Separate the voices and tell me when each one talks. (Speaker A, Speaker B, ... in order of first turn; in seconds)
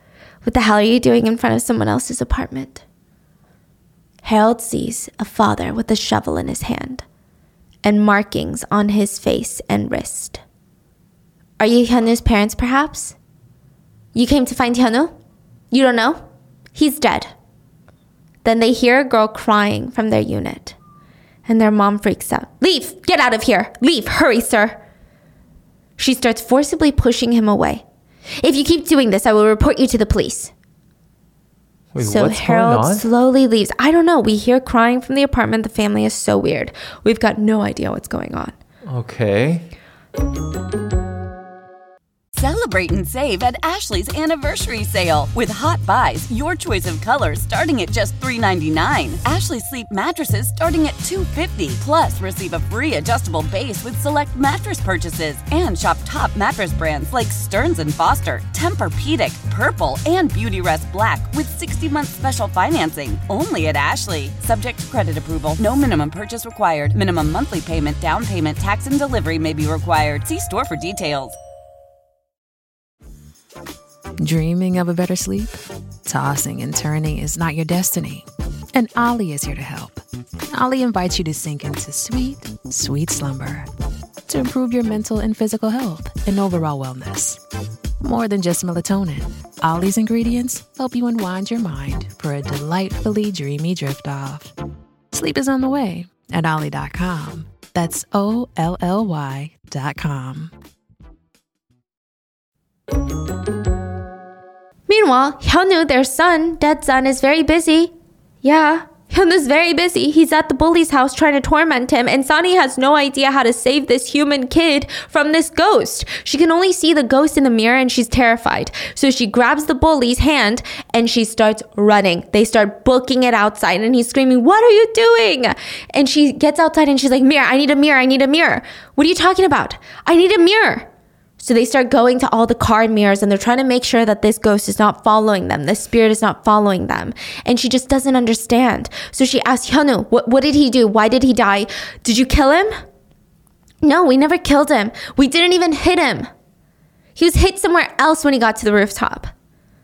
Speaker A: 0.4-2.8, 4.2-7.0, 7.8-10.4, 11.6-13.2, 14.1-15.1, 15.7-16.2, 16.7-17.3, 18.4-20.8, 21.4-24.8, 26.0-27.8, 28.4-30.5, 32.0-38.5, 104.9-107.9, 108.4-130.9, 131.4-142.7, 143.8-146.3, 147.2-149.3
Speaker B: 31.9-33.0, 38.9-39.7
Speaker C: 42.3-71.4
Speaker D: 74.2-83.7, 84.3-87.4, 88.0-94.5, 95.1-100.5